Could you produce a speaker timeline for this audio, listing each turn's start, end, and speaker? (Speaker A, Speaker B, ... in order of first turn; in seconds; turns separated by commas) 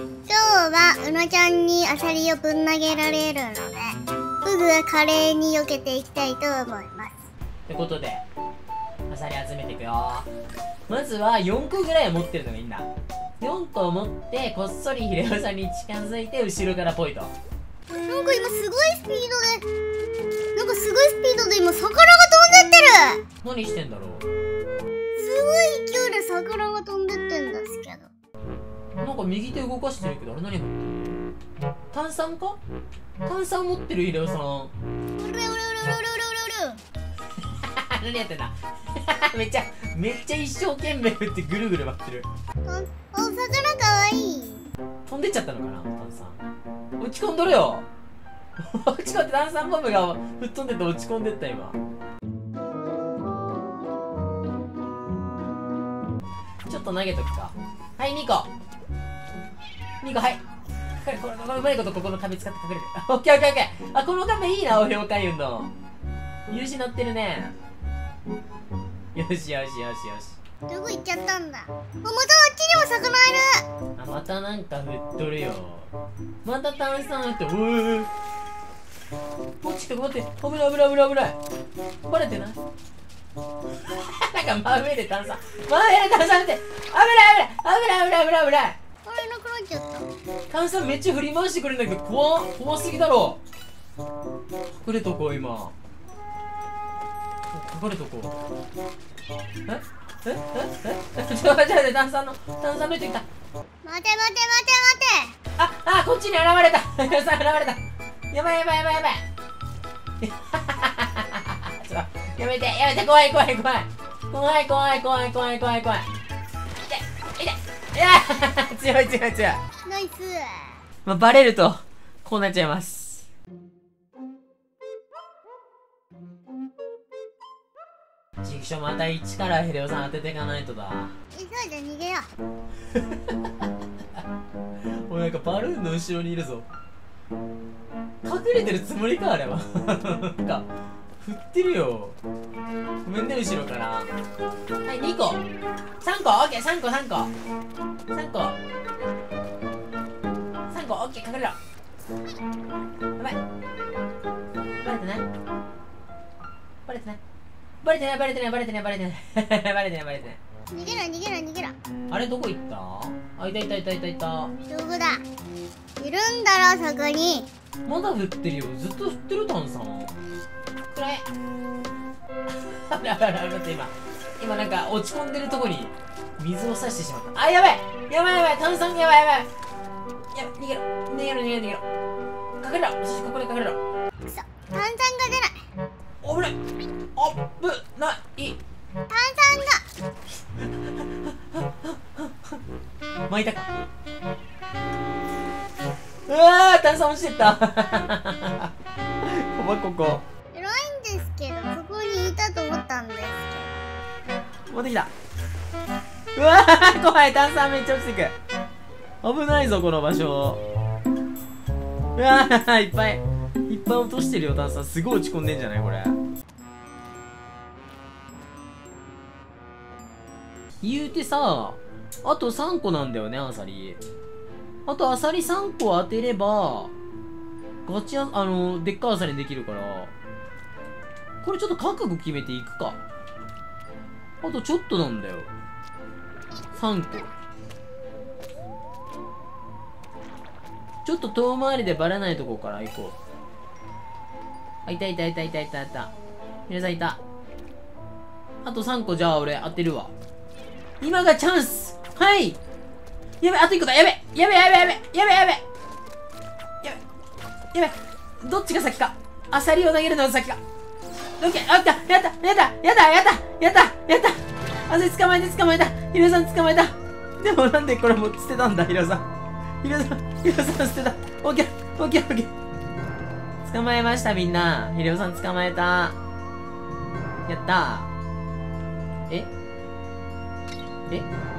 Speaker A: 0.3-7.3, Speaker B: 7.7-8.2, Speaker B: 9.1-10.3, Speaker B: 10.9-12.9, Speaker B: 13.4-17.4, Speaker A: 18.1-19.7, Speaker A: 20.5-23.2, Speaker B: 23.4-24.2, Speaker A: 25.2-28.1, Speaker B: 29.0-31.2, Speaker B: 31.9-32.6, Speaker B: 33.2-34.7, Speaker A: 35.2-36.8, Speaker B: 37.5-42.3, Speaker A: 42.6-44.6, Speaker B: 45.0-46.4, Speaker B: 47.0-47.9, Speaker B: 48.6-51.8, Speaker B: 56.6-58.5, Speaker B: 60.0-60.4, Speaker B: 60.9-65.7, Speaker B: 66.5-67.5, Speaker B: 69.1-70.4, Speaker A: 70.7-73.6, Speaker B: 74.0-75.9, Speaker B: 76.4-78.1, Speaker B: 79.6-81.4, Speaker B: 82.1-82.6, Speaker B: 83.7-88.8, Speaker A: 89.0-90.1, Speaker B: 90.5-93.4, Speaker B: 94.7-95.7, Speaker B: 97.5-98.3, Speaker B: 99.7-103.2, Speaker A: 103.8-105.3, Speaker B: 105.6-107.8, Speaker B: 108.3-109.2, Speaker B: 110.2-116.1, Speaker B: 116.8-119.6, Speaker A: 119.8-120.8, Speaker B: 121.0-123.2, Speaker B: 128.4-131.1, Speaker A: 131.3-132.3, Speaker B: 132.9-133.5, Speaker B: 134.8-136.7, Speaker B: 138.2-140.7, Speaker B: 141.2-142.2, Speaker B: 143.0-144.1, Speaker B: 144.8-145.4, Speaker B: 146.0-147.3, Speaker B: 148.1-148.6, Speaker B: 150.7-151.6, Speaker B: 154.8-155.3, Speaker B: 156.8-157.2, Speaker B: 157.8-160.4, Speaker A: 160.7-161.8, Speaker B: 162.1-164.5, Speaker A: 164.7-165.2, Speaker A: 166.0-167.5, Speaker B: 167.8-170.1, Speaker B: 170.9-171.2, Speaker B: 172.5-179.5, Speaker B: 180.3-181.8, Speaker B: 182.6-183.8, Speaker A: 184.2-185.6, Speaker B: 186.2-186.6, Speaker B: 187.2-188.6, Speaker A: 189.1-189.8, Speaker B: 190.7-192.6, Speaker B: 193.3-193.7, Speaker B: 196.3-200.2, Speaker A: 200.5-203.8, Speaker B: 204.7-205.1, Speaker B: 206.3-208.3, Speaker B: 209.2-210.6, Speaker B: 212.1-216.2, Speaker B: 220.8-224.0, Speaker B: 224.8-226.9, Speaker B: 227.8-230.1, Speaker B: 231.4-233.0, Speaker B: 234.4-235.5, Speaker B: 236.7-237.3, Speaker B: 241.0-243.2, Speaker B: 244.8-246.1, Speaker B: 246.7-247.2, Speaker B: 248.6-250.1, Speaker B: 251.0-252.6, Speaker B: 253.4-255.6, Speaker B: 257.7-260.6, Speaker B: 261.4-269.2, Speaker B: 269.8-272.5, Speaker B: 273.6-276.1, Speaker B: 277.5-278.1